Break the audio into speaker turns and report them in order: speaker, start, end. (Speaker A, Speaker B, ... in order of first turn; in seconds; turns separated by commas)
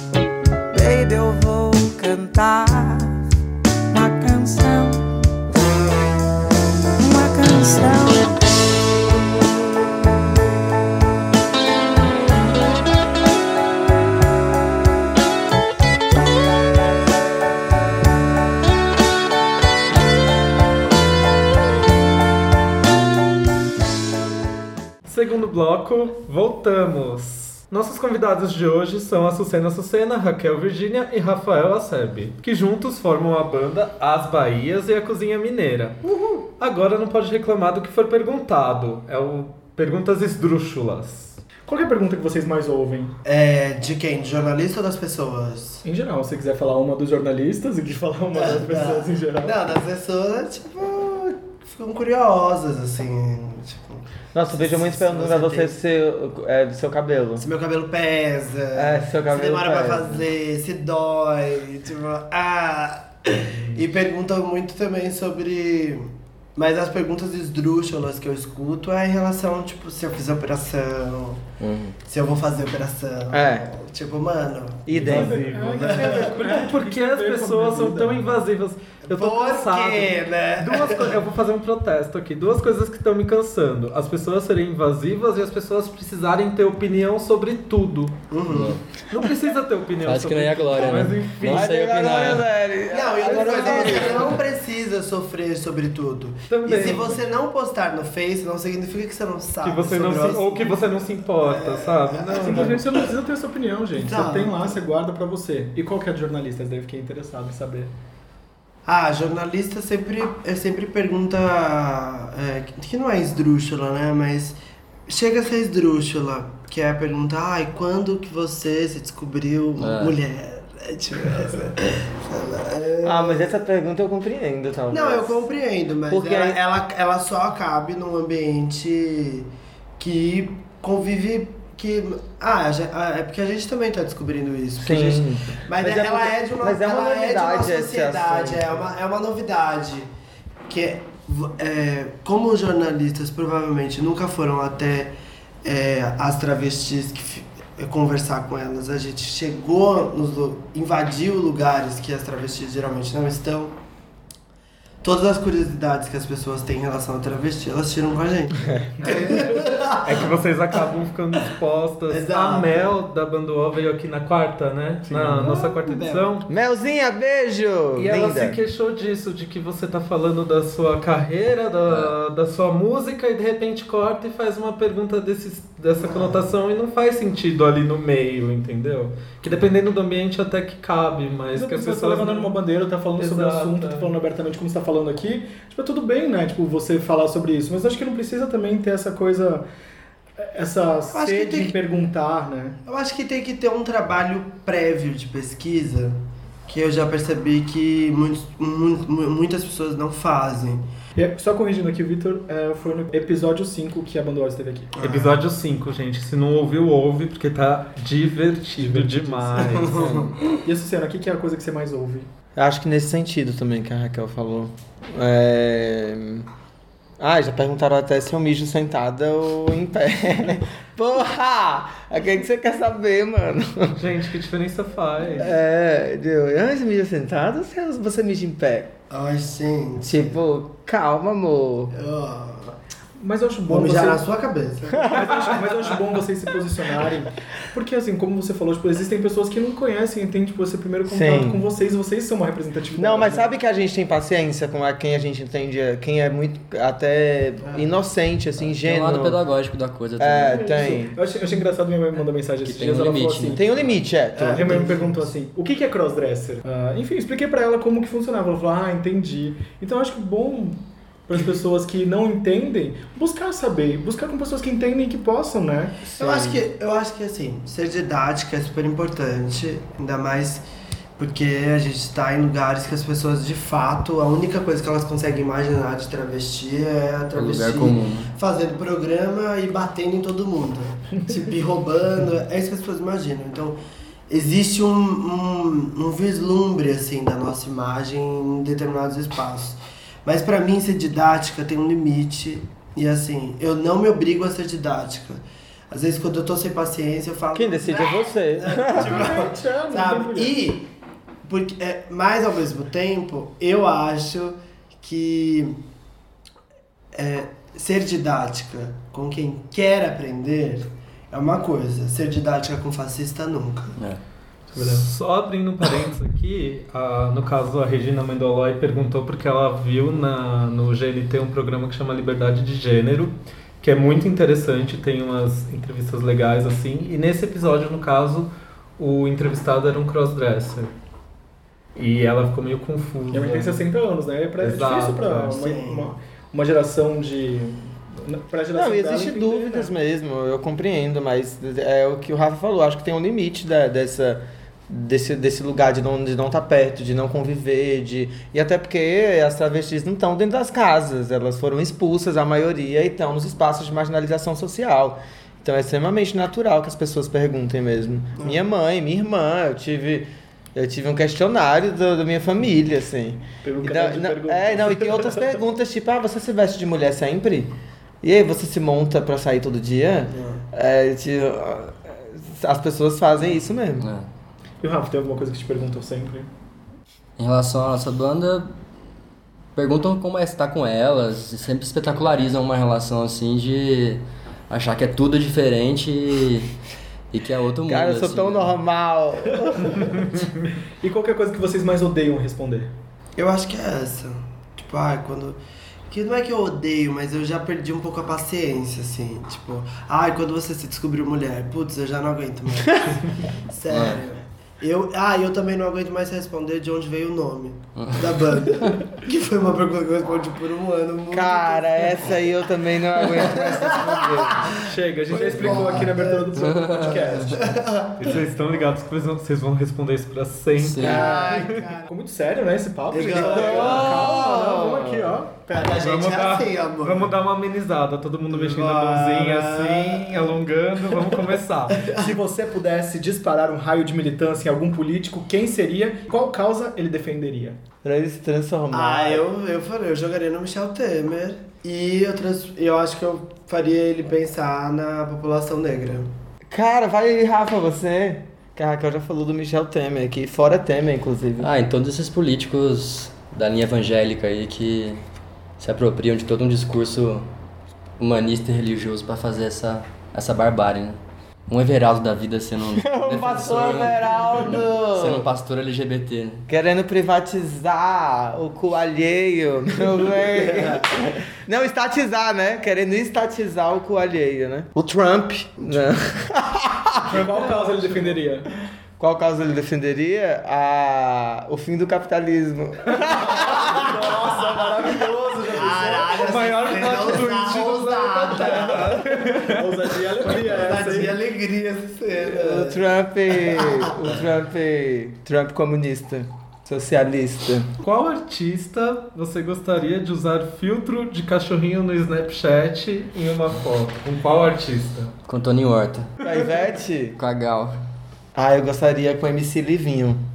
Speaker A: 0.7-3.1, Speaker A: 3.9-5.3, Speaker A: 7.0-8.3, Speaker B: 25.0-36.0, Speaker C: 36.1-36.4, Speaker B: 36.6-41.4, Speaker D: 41.6-43.1, Speaker C: 43.2-45.8, Speaker D: 45.8-49.5, Speaker C: 48.3-55.8, Speaker E: 54.3-57.5, Speaker C: 57.4-71.5, Speaker E: 58.7-60.3, Speaker F: 71.6-71.9, Speaker C: 72.0-76.4, Speaker E: 73.3-73.7, Speaker E: 74.8-75.5, Speaker B: 75.0-88.2, Speaker D: 75.0-78.2, Speaker C: 79.1-81.2, Speaker C: 88.3-88.8, Speaker F: 88.5-88.8, Speaker B: 89.1-91.7, Speaker F: 90.0-92.5, Speaker E: 91.5-94.4, Speaker C: 92.9-102.9, Speaker B: 96.5-97.2, Speaker B: 99.6-102.8, Speaker D: 102.3-107.9, Speaker C: 104.0-104.8, Speaker C: 108.8-123.5, Speaker F: 119.8-120.2, Speaker E: 123.0-125.4, Speaker C: 124.9-140.1, Speaker E: 126.1-126.6, Speaker E: 134.8-138.8, Speaker C: 140.7-153.8, Speaker C: 155.0-160.3, Speaker B: 159.9-166.5, Speaker C: 162.1-162.9, Speaker C: 165.1-166.3, Speaker E: 166.5-168.6, Speaker B: 168.0-182.6, Speaker C: 176.0-176.5, Speaker D: 181.5-189.6, Speaker B: 183.2-184.1, Speaker D: 190.4-192.8, Speaker C: 191.1-191.8, Speaker C: 192.8-200.9, Speaker D: 201.2-204.9, Speaker C: 204.9-205.4, Speaker B: 205.0-210.0, Speaker D: 208.8-209.7, Speaker C: 209.6-210.4, Speaker E: 209.9-210.3, Speaker D: 210.6-212.3, Speaker E: 212.6-216.4, Speaker E: 217.2-224.0, Speaker B: 223.9-225.5, Speaker E: 225.4-228.9, Speaker C: 229.1-230.4, Speaker E: 230.0-231.9, Speaker C: 231.9-232.8, Speaker D: 233.2-234.2, Speaker C: 233.7-235.2, Speaker D: 235.1-243.4, Speaker E: 241.1-241.6, Speaker E: 243.0-249.4, Speaker C: 247.6-247.9, Speaker F: 248.6-250.7, Speaker E: 250.2-251.2, Speaker D: 250.4-253.6, Speaker F: 252.6-254.0, Speaker E: 253.5-254.8, Speaker C: 254.3-255.3, Speaker D: 254.5-266.5, Speaker C: 266.1-270.6, Speaker C: 271.2-300.9, Speaker F: 277.3-278.3, Speaker E: 297.5-299.4, Speaker D: 298.9-300.6, Speaker C: 301.4-305.8, Speaker C: 307.1-313.9, Speaker B: 314.7-330.9, Speaker B: 331.9-333.9, Speaker D: 333.3-339.9, Speaker B: 334.6-335.6, Speaker C: 335.5-336.1, Speaker E: 338.7-374.1, Speaker C: 358.4-358.6, Speaker D: 363.6-365.5, Speaker C: 370.3-370.6, Speaker F: 374.0-374.3, Speaker D: 374.8-376.5, Speaker F: 377.4-378.7, Speaker F: 379.8-386.7, Speaker F: 387.3-388.7, Speaker E: 387.9-390.1, Speaker D: 391.0-392.9, Speaker C: 393.4-412.4, Speaker F: 403.9-404.2, Speaker F: 407.9-408.6, Speaker E: 411.3-414.8, Speaker C: 413.2-414.8, Speaker D: 414.8-417.7, Speaker C: 415.3-418.3, Speaker F: 416.6-417.1, Speaker B: 418.2-421.9, Speaker F: 420.8-421.4, Speaker C: 421.0-422.1, Speaker D: 421.2-426.0, Speaker C: 423.1-424.3, Speaker E: 423.4-425.4, Speaker C: 425.7-427.3, Speaker B: 425.8-432.1, Speaker C: 428.5-431.4, Speaker C: 431.9-432.3, Speaker D: 432.2-437.8, Speaker E: 438.0-439.4, Speaker C: 438.9-446.3, Speaker E: 446.7-451.7, Speaker F: 451.6-455.2, Speaker F: 455.8-457.5, Speaker F: 458.2-466.6, Speaker E: 462.9-465.5, Speaker E: 466.7-477.3, Speaker C: 470.4-471.1, Speaker D: 477.2-478.7, Speaker B: 477.3-478.4, Speaker E: 479.2-484.1, Speaker D: 483.4-486.5, Speaker C: 485.6-489.2, Speaker B: 486.3-489.8, Speaker D: 489.1-491.4, Speaker C: 490.4-494.3, Speaker E: 492.3-497.9, Speaker B: 498.0-505.3, Speaker F: 505.5-506.3, Speaker E: 506.4-507.4, Speaker F: 507.4-507.9, Speaker E: 508.5-510.4